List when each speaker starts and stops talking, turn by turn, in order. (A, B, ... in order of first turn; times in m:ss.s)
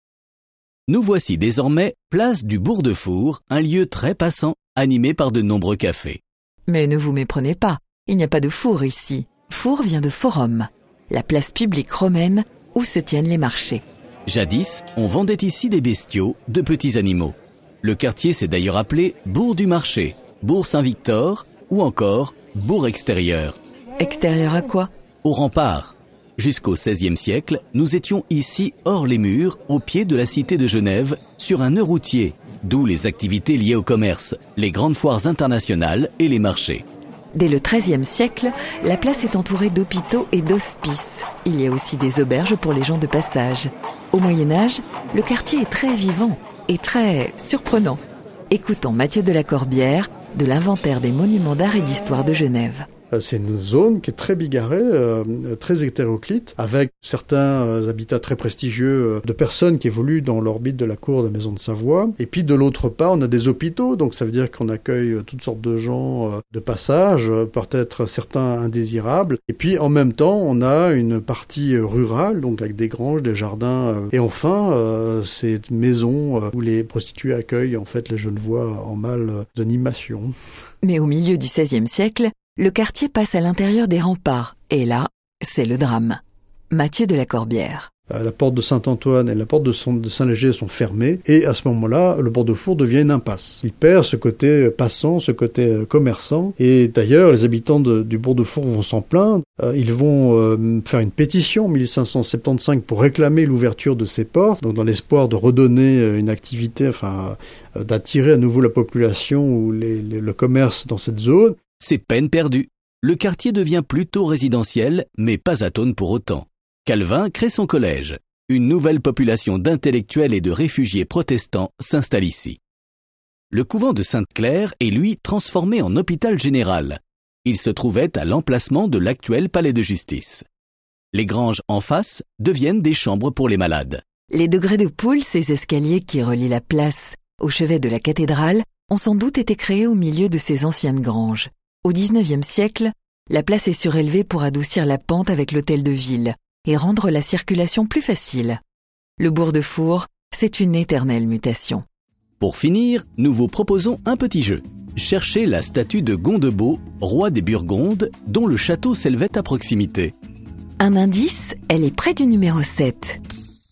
0:00.9-0:06.2 A
0:06.7-0:13.8 B
0:14.3-0:23.6 A
0:24.0-0:24.9 B
0:25.2-0:36.8 A
0:37.3-0:48.0 B
0:48.5-0:52.9 B
0:53.1-1:20.3 C
1:20.8-1:26.2 B
1:26.7-1:27.9 B
1:28.1-1:51.6 C
1:51.8-2:02.6 A
2:03.5-2:10.4 A
2:11.1-2:14.0 A
2:14.3-2:28.6 B
2:29.2-2:31.8 B
2:32.4-2:40.1 A
2:40.8-2:43.2 B